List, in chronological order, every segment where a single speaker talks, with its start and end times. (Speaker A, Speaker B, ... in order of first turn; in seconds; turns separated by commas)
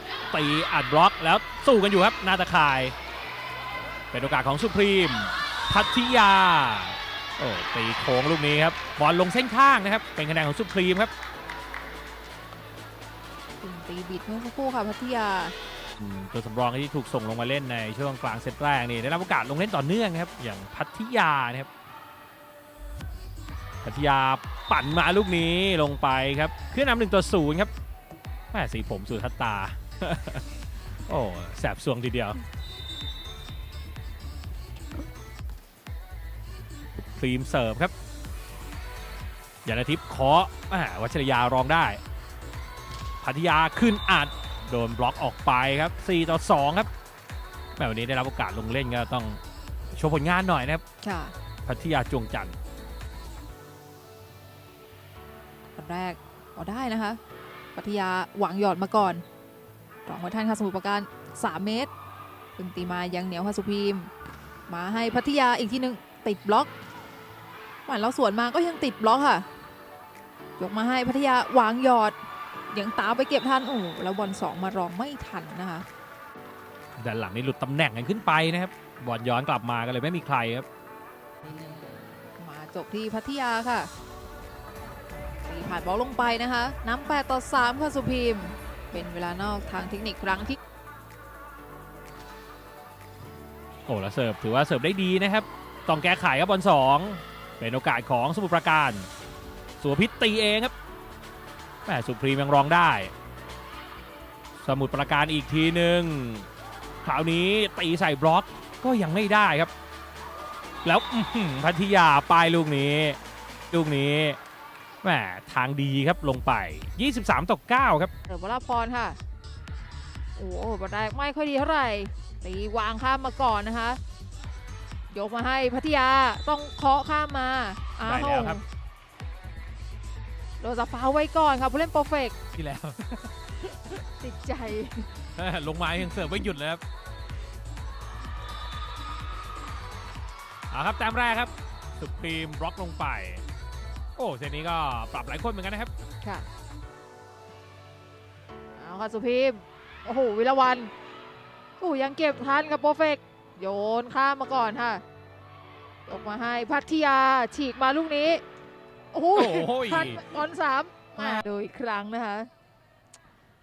Speaker A: 0.3-3.0, Speaker A: 4.1-11.1, Speaker B: 13.6-15.6, Speaker A: 16.0-21.7, Speaker A: 23.8-27.7, Speaker A: 28.5-30.4, Speaker A: 31.1-32.4, Speaker A: 37.2-37.9, Speaker A: 39.6-42.0, Speaker A: 43.2-46.9, Speaker A: 47.8-49.4, Speaker A: 49.9-50.8, Speaker B: 51.0-51.4, Speaker A: 51.6-52.6, Speaker B: 55.8-57.2, Speaker B: 57.8-59.2, Speaker B: 60.1-61.9, Speaker B: 62.6-64.1, Speaker B: 64.7-66.7, Speaker B: 67.9-69.5, Speaker B: 70.6-72.2, Speaker B: 72.7-75.9, Speaker A: 77.0-80.7, Speaker B: 82.4-83.9, Speaker B: 85.4-90.6, Speaker A: 93.9-99.1, Speaker A: 99.8-100.7, Speaker A: 101.8-103.1, Speaker A: 104.6-106.5, Speaker A: 107.0-109.7, Speaker A: 110.8-113.2, Speaker A: 113.7-114.4, Speaker A: 115.0-118.1, Speaker B: 118.3-119.2, Speaker B: 120.4-124.0, Speaker B: 125.1-128.6, Speaker A: 128.0-128.6, Speaker B: 130.6-132.4, Speaker A: 132.5-133.5, Speaker B: 134.2-135.1, Speaker A: 135.3-136.8, Speaker A: 140.7-143.4, Speaker A: 144.2-145.9, Speaker B: 146.2-146.5, Speaker B: 148.8-150.9, Speaker B: 151.8-155.0, Speaker B: 156.1-158.4, Speaker B: 159.1-162.5, Speaker A: 159.3-160.4, Speaker A: 161.2-161.4